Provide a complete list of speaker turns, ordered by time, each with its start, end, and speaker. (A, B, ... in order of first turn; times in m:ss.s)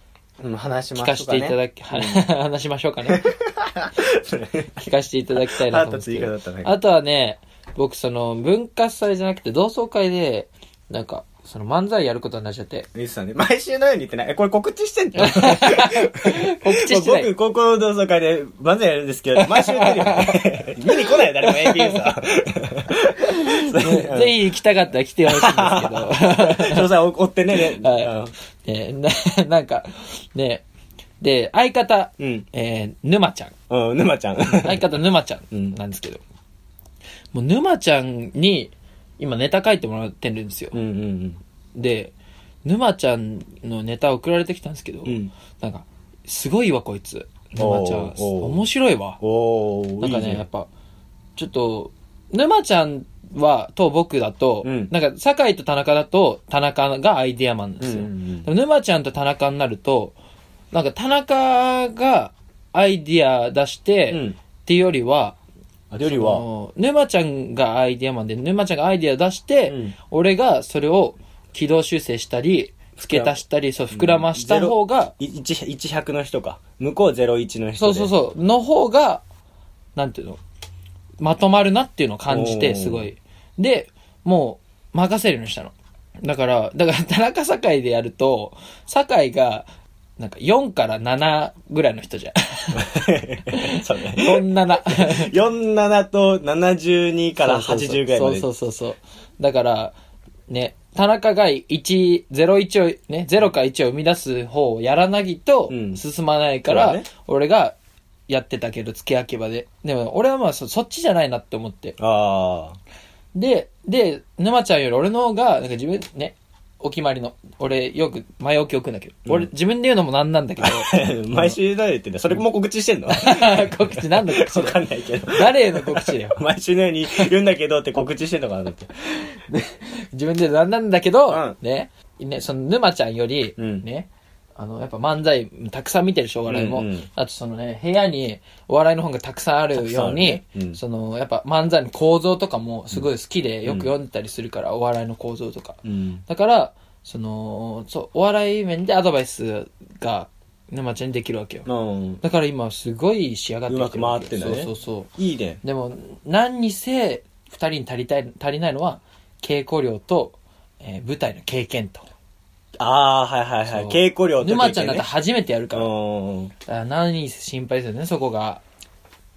0:00.4-0:02.2 A
0:00.9-0:03.3 B
0:03.1-0:04.7 A
0:04.8-0:12.9 B
0:05.4-0:06.7 A
0:12.9-0:24.5 A
0:15.2-0:17.3 B
0:19.4-0:22.1 B
0:23.2-0:26.9 B
0:25.3-0:28.3 A
0:27.5-0:30.6 B
0:31.2-0:33.5 B
0:32.2-0:32.4 A
0:33.7-0:34.8 A
0:34.5-0:36.2 B
0:35.5-0:35.8 A
0:37.3-0:40.8 B
0:40.7-0:41.4 A
0:41.7-0:42.1 B
0:42.6-0:49.2 B
0:45.0-0:45.3 A
0:47.5-0:48.6 A
0:49.2-0:50.4 A
0:50.0-0:50.7 B
0:51.4-1:00.2 B
0:54.6-0:54.9 A
0:57.8-0:58.5 A
1:00.7-1:05.4 B
1:04.1-1:04.4 A
1:05.9-1:06.4 A
1:06.0-1:15.1 B
1:09.7-1:09.9 A
1:13.0-1:13.4 A
1:13.9-1:18.1 A
1:17.8-1:19.2 B
1:20.0-1:20.4 B
1:21.2-1:29.7 B
1:22.3-1:23.1 A
1:30.2-1:32.9 B
1:32.7-1:38.5 A
1:33.5-1:35.3 B
1:37.4-1:39.9 B
1:40.5-1:47.8 B
1:45.7-1:46.0 A
1:46.7-1:47.0 A
1:48.3-1:52.0 B
1:52.0-1:52.8 A
1:53.3-2:01.6 B
2:00.6-2:08.9 A
2:03.1-2:06.4 B
2:09.1-2:31.6 B
2:11.3-2:11.6 A
2:13.6-2:13.8 A
2:16.5-2:17.1 A
2:19.7-2:20.8 A
2:23.6-2:23.9 A
2:25.8-2:26.2 A
2:31.6-2:32.2 A
2:32.2-2:35.1 B
2:33.7-2:35.6 A
2:35.6-2:42.1 B
2:42.8-2:45.1 A
2:43.7-2:45.9 B
2:45.7-2:46.5 A
2:46.7-2:48.6 B